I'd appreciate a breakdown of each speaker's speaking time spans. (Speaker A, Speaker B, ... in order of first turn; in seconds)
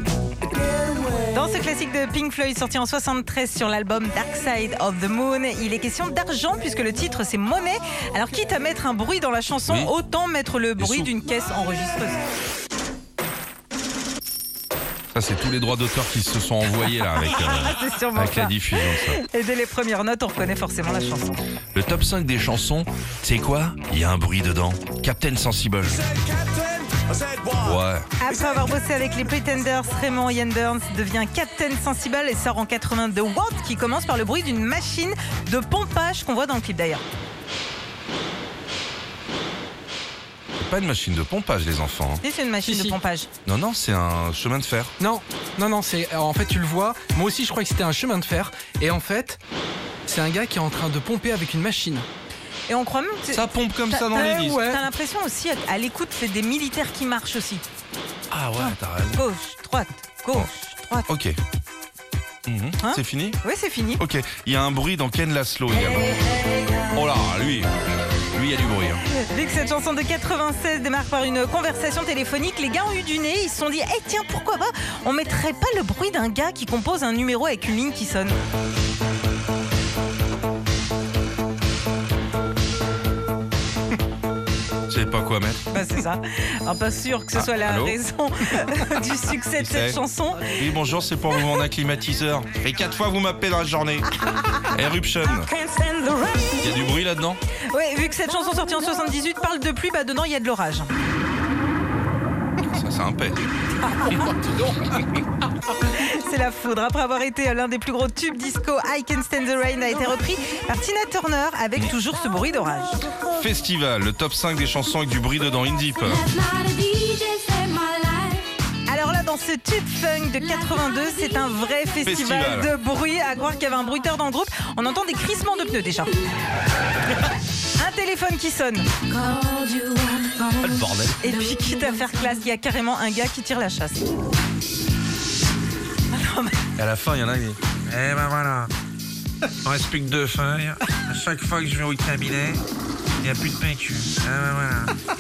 Speaker A: 1.2-12.2, 17.2-21.3, 28.2-37.0, 42.2-43.3, 52.7-57.6, 58.6-61.1, 62.8-64.0, 69.2-78.3, 85.7-90.7, 97.7-100.9, 103.8-104.4, 105.8-113.0, 118.9-126.2, 127.8-128.9, 131.2-134.1, 136.1-136.6
Speaker B: 9.7-9.9, 10.8-11.1, 15.1-19.2, 21.7-26.1, 27.5-28.1, 40.6-42.2, 43.5-44.9, 53.3-54.6, 58.3-59.2, 61.1-61.4, 62.5-63.4, 64.0-66.2, 66.9-67.7, 68.3-69.0, 84.9-85.6, 87.3-88.0, 89.6-90.0, 90.5-94.1, 94.7-95.5, 96.6-97.4, 102.7-103.4, 113.3-116.2, 122.0-122.7, 130.6-131.2, 136.8-137.6
Speaker C: 42.6-43.0, 45.0-49.4, 50.1-52.1, 54.2-54.8
Speaker D: 95.5-96.6, 116.2-118.5, 129.0-130.8
Speaker E: 137.9-138.7, 139.7-142.6, 143.2-144.9